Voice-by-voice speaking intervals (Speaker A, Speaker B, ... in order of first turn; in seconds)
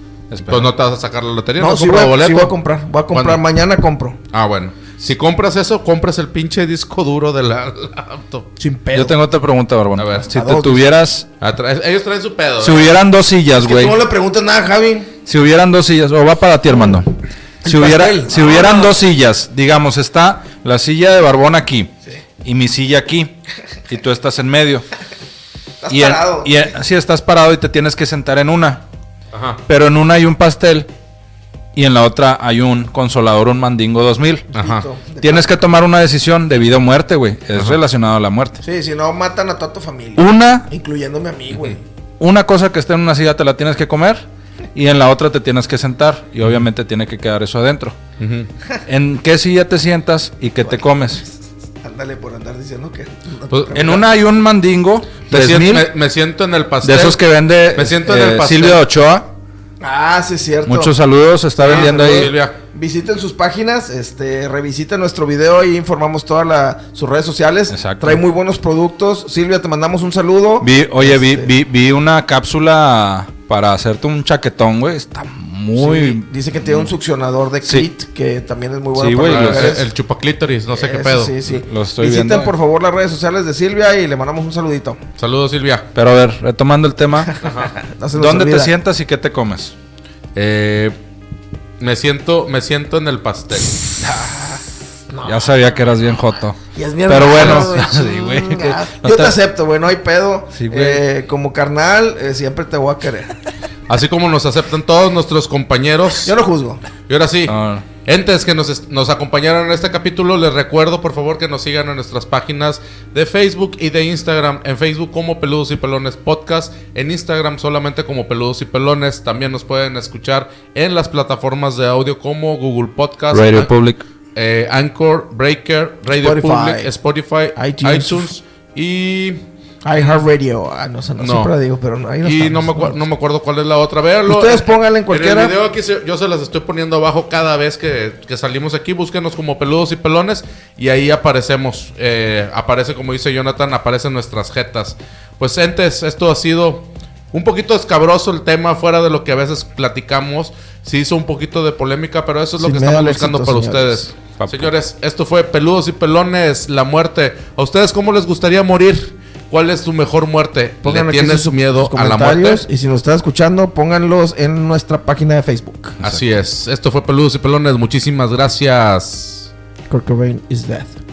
Speaker A: 0.3-0.7, 8.9-11.3, 12.6-13.9, 15.2-23.3, 23.9-24.9, 25.9-28.8, 29.6-30.9, 31.7-34.5, 35.2-38.6, 40.2-40.7, 42.2-48.0, 48.9-51.2, 53.7-55.9, 56.8-59.3, 60.6-62.3, 67.7-68.2, 70.6-76.9, 77.6-77.9, 78.9-79.8, 81.5-82.5, 85.9-87.3, 88.1-89.7, 94.0-94.5, 95.2-99.4, 100.5-101.0, 107.5-107.8, 123.3-124.0, 154.4-154.7
Speaker B: 0.5-2.5, 3.1-3.4, 4.3-8.5, 9.9-10.3, 11.4-13.0, 29.3-29.6, 34.5-34.9, 41.5-41.8, 48.2-48.5, 53.5-54.0, 55.3-57.2, 57.7-58.8, 61.6-62.5, 79.2-81.4, 85.2-85.9, 87.4-87.7, 90.3-91.0, 91.8-93.8, 103.9-106.3, 107.1-123.7, 124.3-129.4, 131.2-131.5, 132.2-162.7, 166.0-169.5
Speaker C: 1.6-4.2, 8.6-9.2, 10.3-10.9, 13.6-15.1, 17.6-18.9, 25.8-26.6, 34.5-35.6, 38.6-41.8, 50.6-51.0, 51.8-54.0, 59.8-61.0, 61.6-71.5, 75.8-79.8, 80.7-85.0, 87.3-88.7, 95.1-95.5, 96.7-103.3, 106.2-106.8, 126.2-126.9, 127.5-128.3, 129.8-133.0, 134.2-135.5, 152.6-154.1, 160.8-166.0, 169.9-170.9